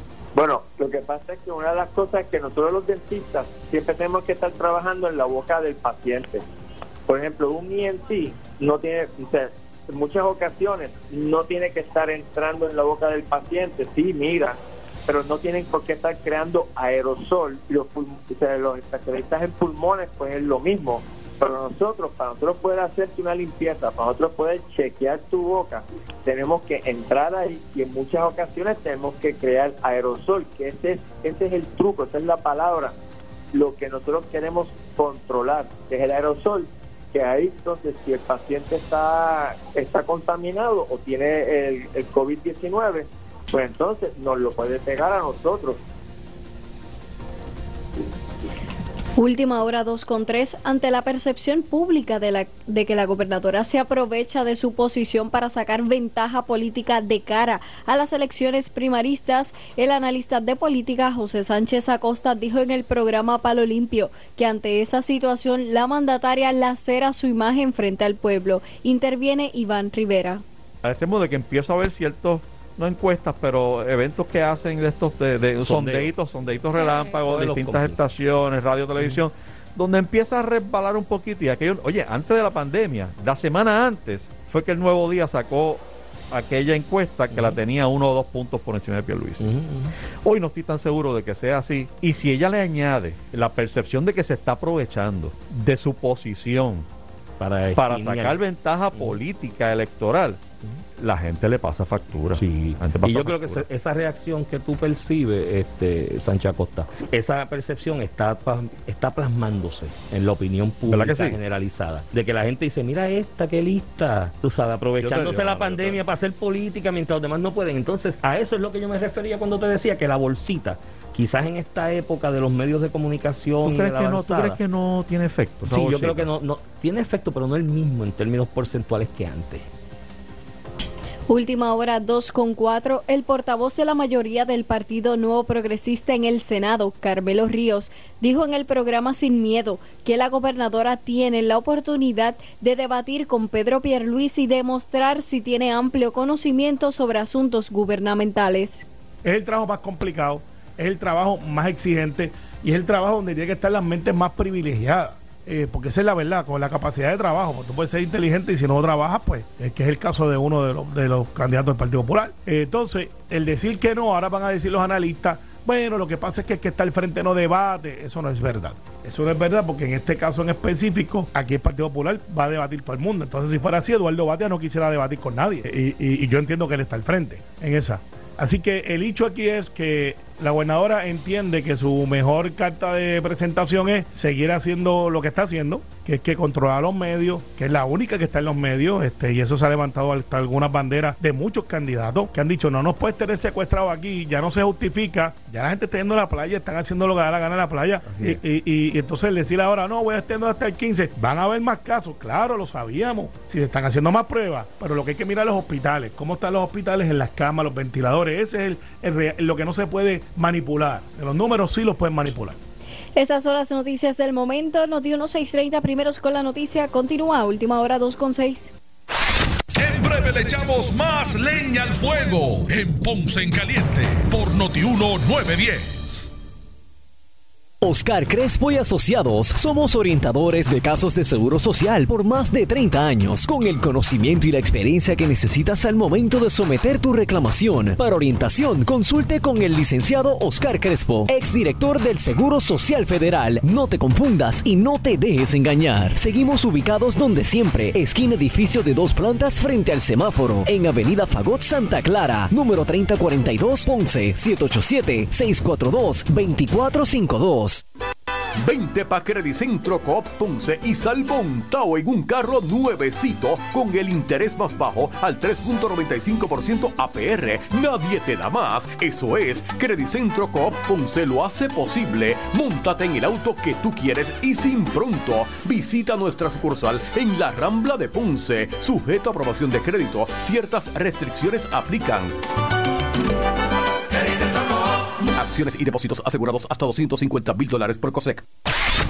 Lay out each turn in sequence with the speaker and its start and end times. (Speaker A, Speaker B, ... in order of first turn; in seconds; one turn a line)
Speaker A: 0.3-6.4
Speaker A: 7.1-32.9
Speaker A: 33.5-45.8
Speaker B: 49.2-70.4
Speaker C: 70.8-89.4
Speaker D: 75.6-76.2
Speaker D: 76.7-78.1
Speaker D: 87.3-87.6
Speaker D: 89.4-89.9
Speaker C: 90.2-96.9
Speaker D: 97.4-98.4
Speaker C: 97.8-103.7
Speaker D: 98.9-99.2
Speaker D: 102.3-124.6
Speaker C: 110.9-111.4
Speaker C: 115.0-116.0
Speaker C: 123.6-126.3
Speaker D: 125.6-129.7
Speaker B: 131.3-148.8
Speaker E: 149.2-212.6
Speaker C: 198.1-198.4
Speaker B: 213.2-218.7
Speaker F: 219.7-226.3
Speaker G: 227.8-257.8
Speaker H: 258.6-282.4
Speaker H: 284.2-288.4